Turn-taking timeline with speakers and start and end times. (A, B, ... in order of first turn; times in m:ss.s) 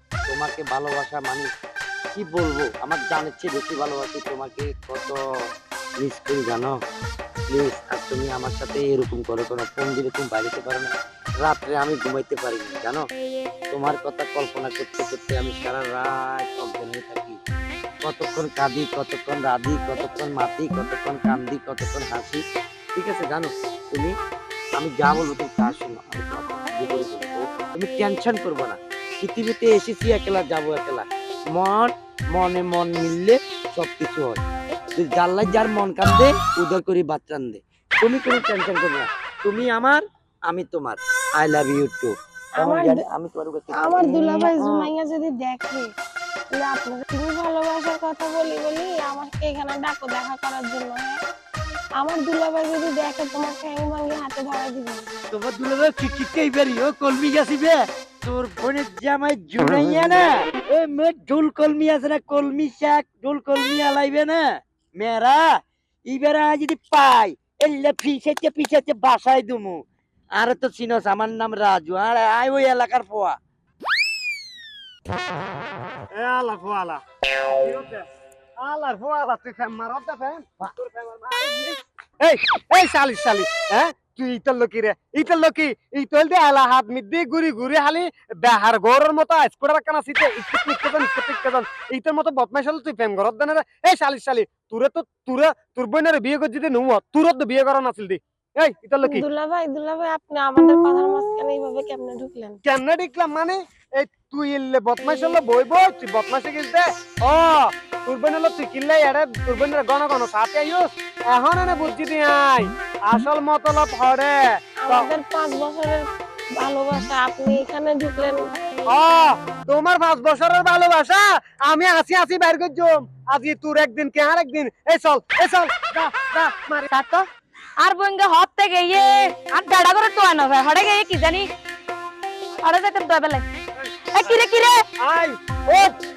0:00.3-0:01.5 A
0:02.1-0:05.2 A
0:06.0-0:06.7 A
0:07.5-0:13.0 A
0:13.7-0:17.4 A
0:18.0-0:22.4 A
0:22.9-0:24.1 A
0:24.8-0:34.4 A
0:35.0-0:44.9 A
0:42.6-0:43.0 B
0:43.8-0:45.9 B
0:46.5-0:51.2 B
0:52.0-0:55.1 B
0:55.3-1:04.4 A
1:05.0-1:05.4 A
1:06.1-1:09.8 A
1:10.4-1:13.3 A
1:16.1-1:17.0 C
1:17.6-1:18.0 C
1:18.6-1:39.2 C
1:39.0-1:42.6 B
1:42.6-1:55.1 C
1:54.8-1:56.0 B
1:56.6-1:58.4 B
1:58.9-2:06.9 C
2:06.9-2:07.2 D
2:07.8-2:11.5 D
2:12.6-2:13.4 D
2:14.1-2:14.8 D
2:15.0-2:15.9 C